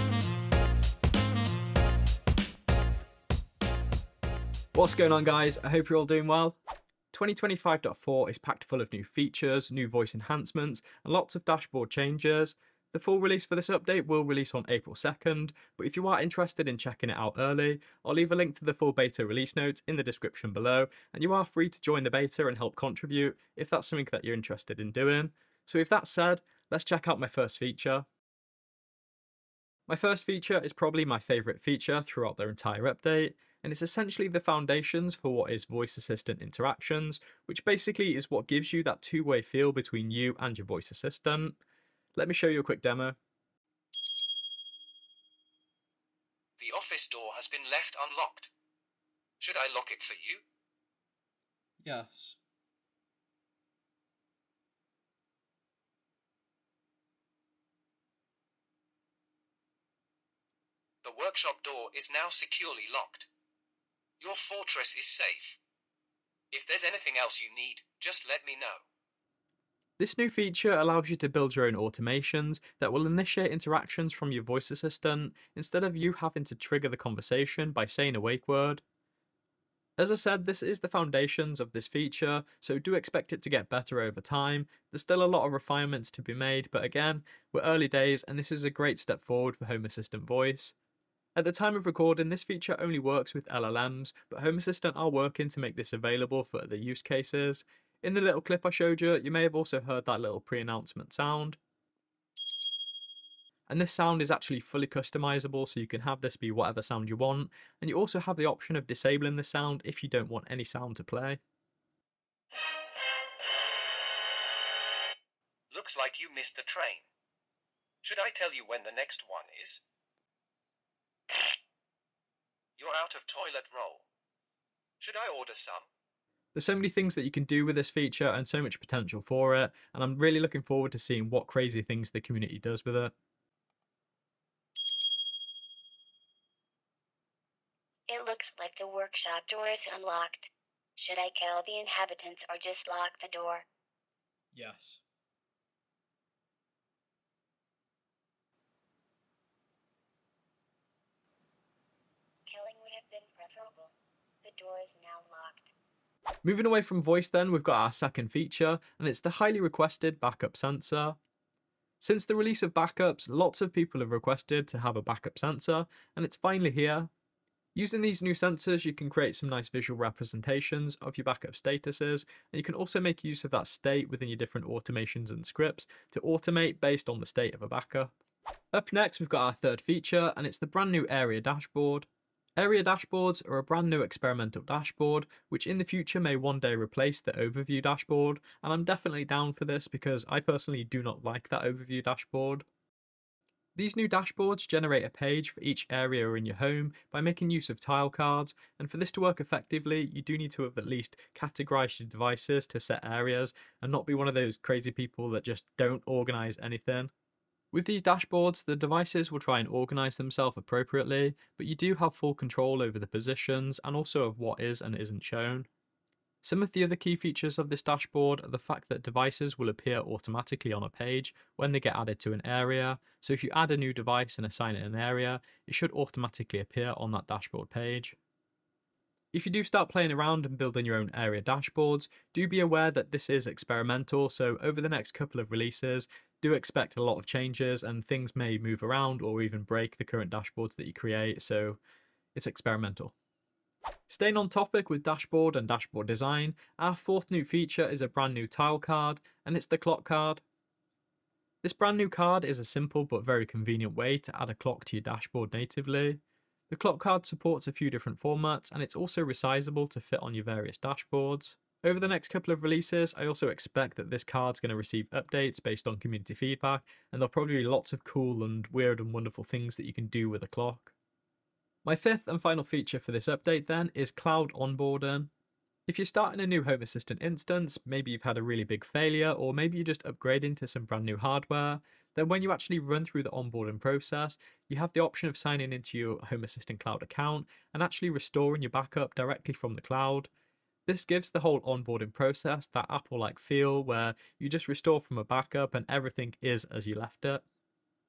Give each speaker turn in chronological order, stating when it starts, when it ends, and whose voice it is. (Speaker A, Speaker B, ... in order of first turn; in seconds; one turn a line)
Speaker A: 4.7-6.6
Speaker A: 7.1-28.1
Speaker A: 29.9-41.6
Speaker A: 42.1-43.2
Speaker B: 46.6-48.5
Speaker B: 49.4-50.4
Speaker A: 51.8-52.4
Speaker B: 61.0-63.3
Speaker B: 64.2-65.6
Speaker B: 66.5-68.8
Speaker A: 70.0-78.8
Speaker A: 80.0-90.8
Speaker A: 91.3-101.6
Speaker A: 103.7-111.4
Speaker B: 115.7-117.1
Speaker B: 118.0-119.8
Speaker B: 122.8-124.1
Speaker B: 125.0-125.9
Speaker A: 126.5-133.1
Speaker C: 138.1-143.7
Speaker A: 144.5-145.0
Speaker C: 152.5-155.7
Speaker A: 156.4-161.2
Speaker A: 162.0-167.1
Speaker A: 167.8-178.1
Speaker A: 178.7-192.7
Speaker A: 193.8-207.1
Speaker A: 207.7-215.7
Speaker A: 216.4-228.2
Speaker A: 229.3-241.8
Speaker A: 242.3-243.1
Speaker A: 244.1-250.4
Speaker A: 251.6-270.9
Speaker A: 271.8-275.3
Speaker A: 275.9-290.3
Speaker A: 290.9-297.4